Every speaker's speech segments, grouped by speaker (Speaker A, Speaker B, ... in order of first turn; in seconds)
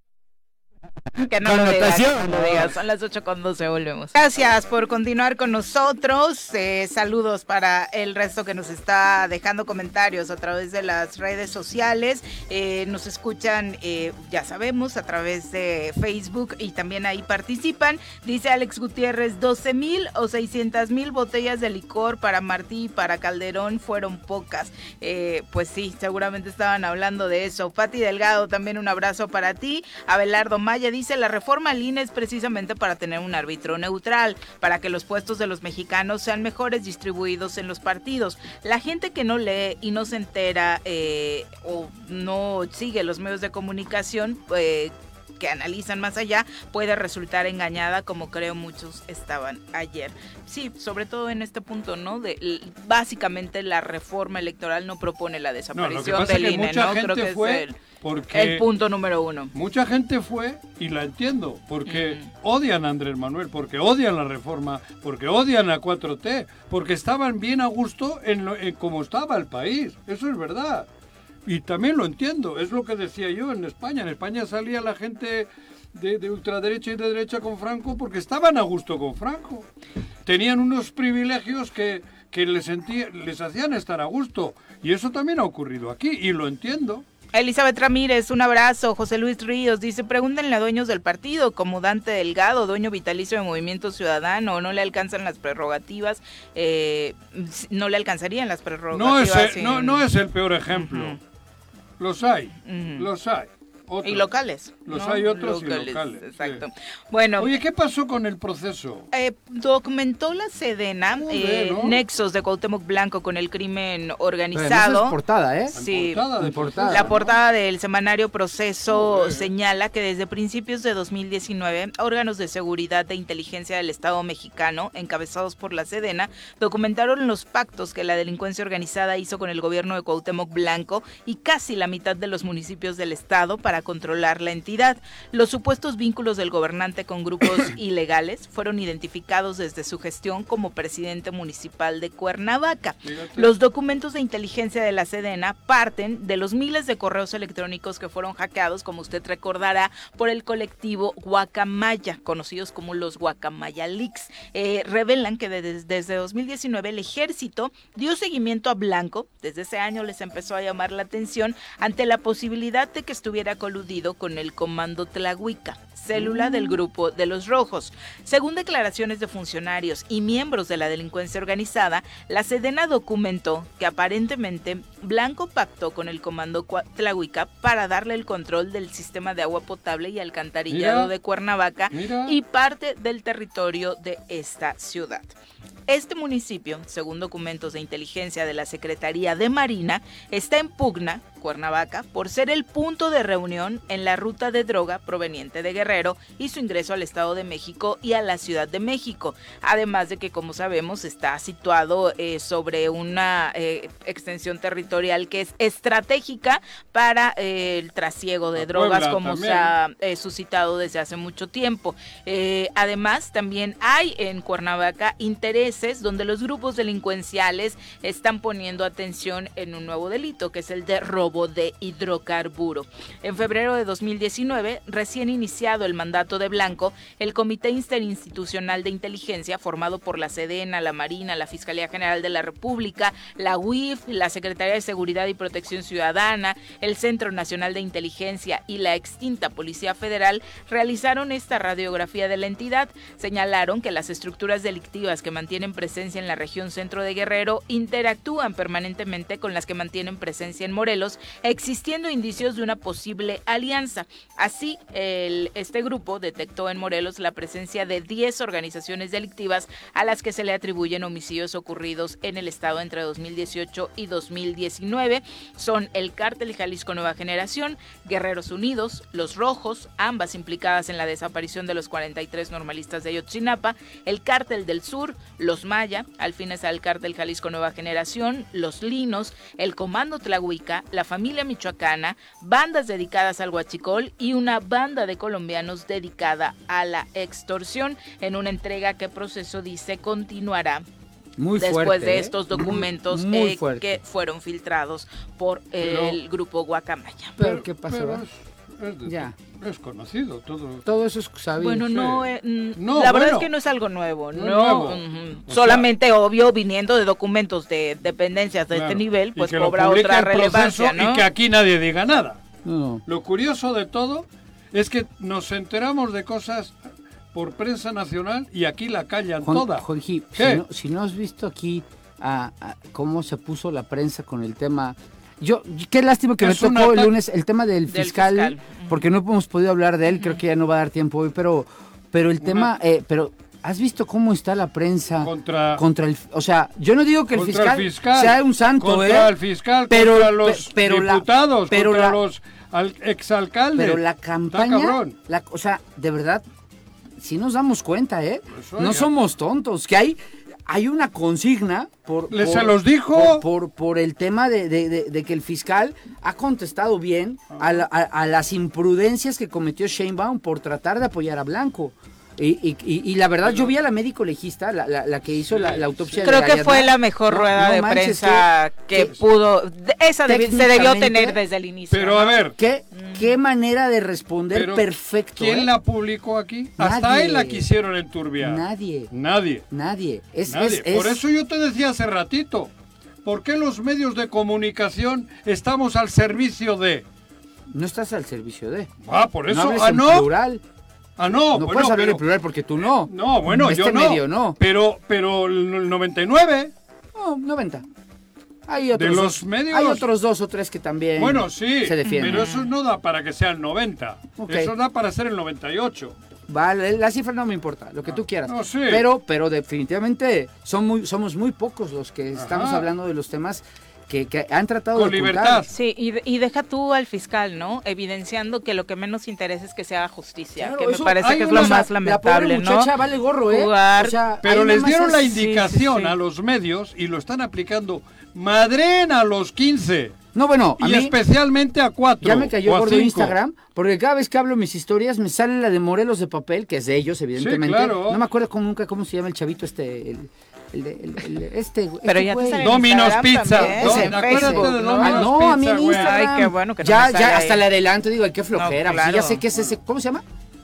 Speaker A: 1.2-57.8, 58.3-59.5, 61.9-62.3, 87.3-100.0, 100.7-101.2, 102.7-103.1, 104.0-107.5, 109.1-115.2, 115.7-116.3, 116.9-185.3, 185.9-290.8, 291.6-297.4, 301.6-311.2, 327.9-328.9, 366.2-373.3, 402.0-402.7, 415.7-422.9, 423.5-424.2, 425.3-426.1, 442.0-447.6, 448.5-449.4
Speaker B: 1.4-2.6, 114.5-115.7, 116.4-117.1, 166.2-166.7, 291.4-294.0, 297.4-298.2, 299.0-299.3, 300.8-301.9, 312.6-313.0, 319.4-339.3, 339.9-342.2, 343.7-346.4, 347.2-369.1, 370.2-371.4, 372.6-375.7, 376.8-377.6, 378.4-379.1, 379.7-381.2, 387.7-388.9, 389.5-390.6, 391.5-394.6, 397.1-397.8, 398.7-402.5, 404.4-404.7, 406.5-415.7, 420.6-425.4, 430.3-431.1, 432.2-450.2
Speaker C: 55.7-58.7, 59.5-70.9, 71.4-79.7, 80.2-87.0, 98.9-101.2, 102.0-104.3, 104.8-106.6, 107.4-109.1, 111.1-112.0, 115.7-117.4, 118.9-119.5, 143.0-143.5, 180.7-181.1, 181.9-182.4, 208.6-209.7, 295.8-296.2, 297.4-300.9, 301.9-303.5, 304.3-305.9, 308.7-312.4, 313.1-316.8, 317.3-320.6, 326.4-327.1, 332.4-332.7, 335.2-335.8, 337.3-345.1, 348.5-349.1, 352.3-353.4, 357.5-357.8, 363.4-363.7, 365.5-366.2, 371.9-372.6, 374.5-379.6, 380.5-382.7, 383.2-387.1, 389.0-390.3, 391.2-392.2, 393.0-396.7, 398.9-400.1, 401.2-406.1, 408.1-409.1, 412.4-412.9, 414.9-415.7, 421.2-421.9, 424.4-430.1, 430.8-433.4, 437.4-438.2, 442.6-446.1